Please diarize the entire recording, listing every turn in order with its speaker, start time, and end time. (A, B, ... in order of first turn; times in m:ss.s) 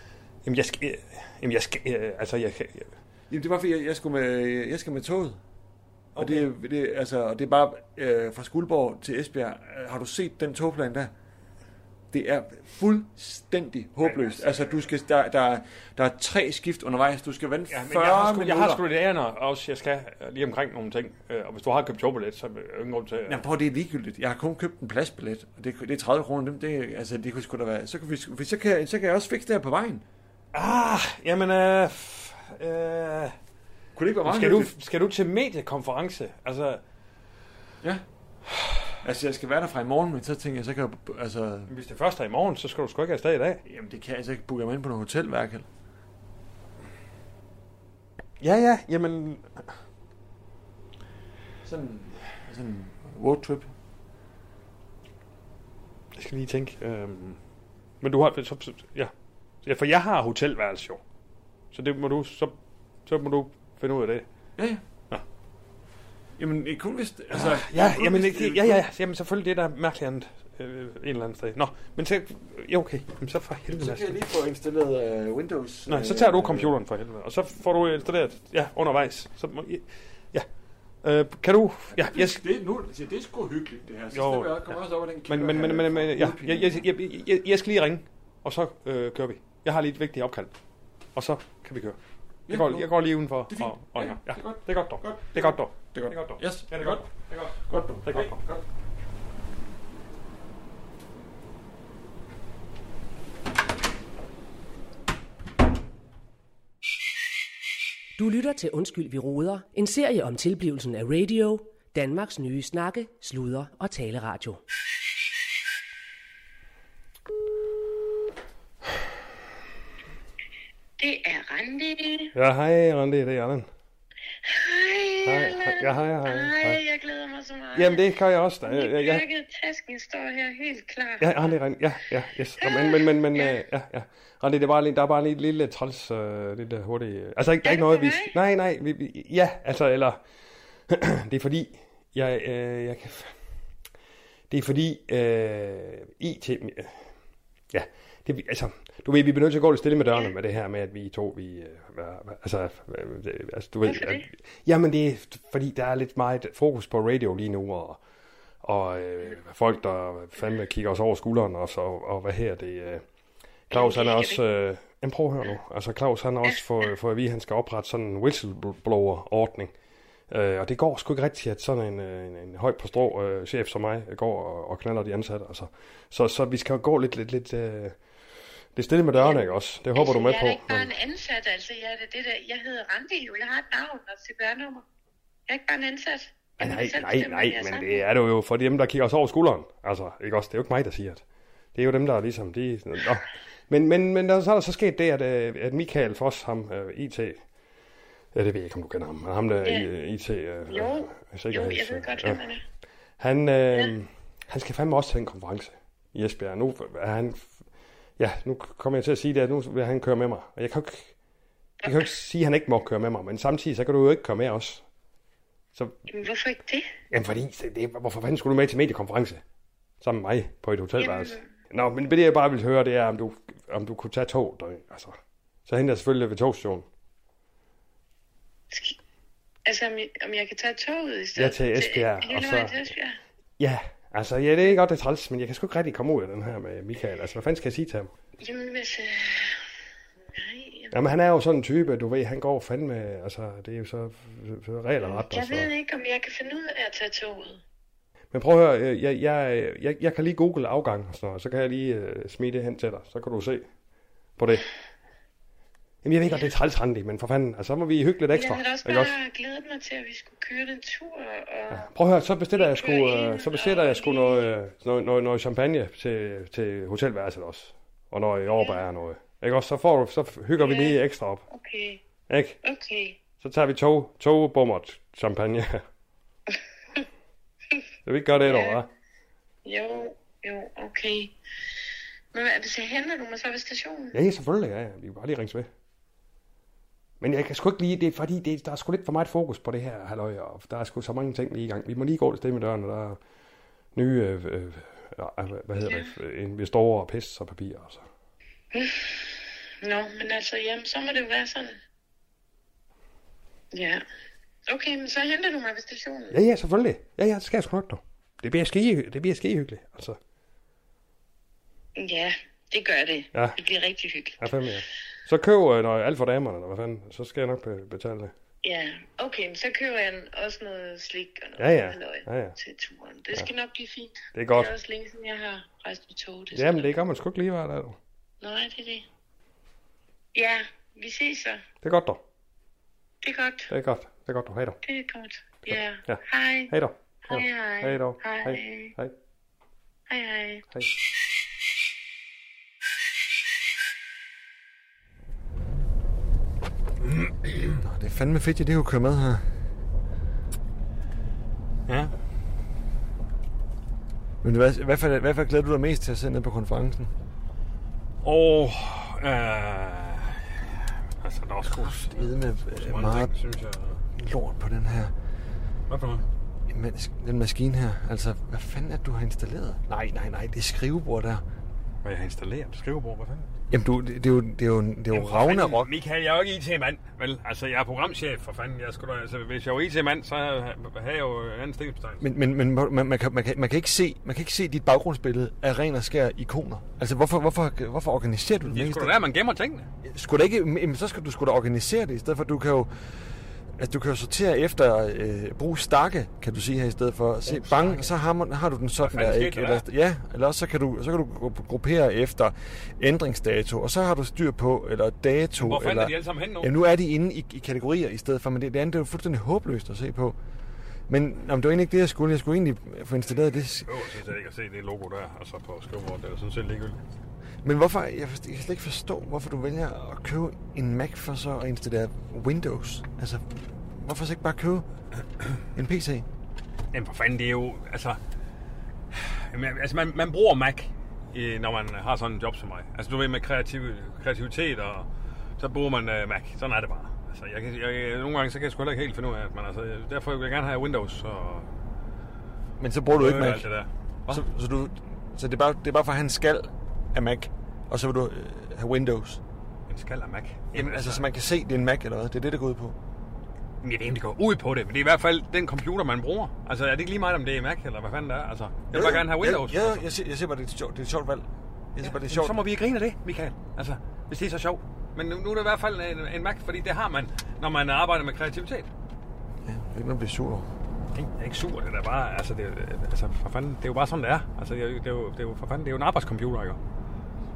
0:00.4-0:02.9 A
0:03.3-0:05.4 B
0:06.1-0:06.5 A
0:06.2-0:11.1 B
0:12.1-0:18.8 B
0:14.0-0:14.8 A
0:17.7-0:23.4 A
0:23.3-0:30.0 B
0:30.5-0:33.3 A
0:33.9-0:34.7 B
0:34.2-0:36.8 A
0:39.0-0:41.7 B
0:41.7-0:43.6 A
0:43.6-0:45.7 B
0:48.4-0:49.7 A
0:51.6-0:53.7 B
0:56.1-0:57.4 A
0:58.0-0:59.1 A
0:59.6-1:01.0 A
1:01.7-1:02.5 A
1:03.0-1:04.2 A
1:04.6-1:04.8 B
1:06.4-1:08.8 B
1:07.3-1:14.2 A
1:13.7-1:16.7 B
1:15.9-1:20.5 A
1:21.0-1:22.4 A
1:21.9-1:26.8 B
1:24.1-1:30.5 A
1:31.1-1:32.0 A
1:32.5-1:32.9 B
1:32.5-1:37.5 A
1:33.5-1:38.6 B
1:38.0-1:38.4 A
1:48.2-1:54.6 C
2:01.0-2:02.3 D
2:02.3-2:03.7 A
2:04.4-2:08.0 D
2:05.2-2:06.8 A
2:07.7-2:09.2 A
2:08.6-2:11.5 D
2:11.2-2:20.2 A
2:12.6-2:13.6 D
2:17.6-2:18.4 D
2:20.9-2:23.3 A
2:24.5-2:27.0 A
2:27.7-2:38.0 A
2:33.8-2:34.2 D
2:38.6-2:43.0 A
2:43.7-2:49.7 A
2:43.7-2:44.4 D
2:50.3-2:58.0 A
2:58.8-3:00.9 A
2:59.2-3:04.8 D
3:05.5-3:08.0 D
3:06.6-3:11.2 A
3:11.7-3:17.4 A
3:18.3-3:22.4 A
3:20.7-3:22.6 D
3:23.2-3:27.5 A
3:28.2-3:31.1 A
3:31.8-3:34.8 A
3:36.1-3:36.9 D
3:37.1-3:39.4 A
3:40.0-3:46.9 A
3:41.0-3:41.4 D
3:48.7-3:49.0 D
3:49.6-3:53.2 D
3:51.4-3:52.8 A
3:53.6-3:58.1 A
3:58.4-3:59.6 D
4:00.3-4:01.0 D
4:00.9-4:05.7 A
4:05.0-4:07.6 D
4:08.3-4:13.7 A
4:14.4-4:14.7 A
4:16.0-4:19.2 A
4:18.3-4:21.9 D
4:21.7-4:31.4 A
4:22.6-4:24.4 D
4:30.6-4:31.0 D
4:31.5-4:32.0 D
4:32.3-4:32.6 A
4:32.6-4:33.2 D
4:33.4-4:35.8 A
4:38.0-4:38.9 A
4:38.4-4:38.8 D
4:39.6-4:41.3 D
4:42.3-4:44.2 D
4:44.1-4:45.7 A
4:47.2-4:53.2 A
4:53.9-4:58.0 A
4:55.8-4:56.1 D
4:58.7-5:01.8 D
5:03.7-5:04.0 D
5:04.7-5:06.4 D
5:06.3-5:10.2 A
5:12.0-5:14.4 D
5:14.4-5:18.3 A
5:18.6-5:26.9 D
5:21.6-5:22.5 A
5:24.3-5:24.7 A
5:26.5-5:28.0 A
5:28.4-5:29.0 D
5:30.3-5:31.6 D
5:31.8-5:32.2 A
5:33.2-5:33.7 D
5:33.7-5:34.8 A
5:34.8-5:36.7 D
5:35.7-5:39.1 A
5:37.3-5:38.9 D
5:40.1-5:40.7 D
5:47.2-5:47.8 A
5:47.6-5:49.5 B
5:54.4-5:57.1 B
5:58.2-6:04.0 A
6:01.6-6:03.3 B
6:04.1-6:05.1 B
6:05.9-6:06.2 A
6:06.7-6:11.4 B
6:12.0-6:13.5 A
6:13.7-6:15.9 B
6:15.1-6:22.2 A
6:22.2-6:29.2 B
6:28.6-6:29.9 A
6:30.0-6:32.9 B
6:33.8-6:50.4 B
6:37.4-6:38.1 A
6:39.0-6:39.8 A
6:45.6-6:46.7 A
6:51.1-6:54.0 B
6:53.8-6:57.0 A
6:57.6-7:04.9 B
7:05.6-7:06.3 B
7:06.9-7:08.2 A
7:09.1-7:15.1 A
7:15.6-7:21.7 A
7:22.8-7:23.7 B
7:23.1-7:24.4 A
7:24.3-7:29.4 B
7:29.9-7:31.2 A
7:30.7-7:33.0 B
7:33.8-7:40.0 A
7:38.9-7:42.6 B
7:42.0-7:48.9 A
7:49.6-7:50.7 B
7:51.1-7:56.8 A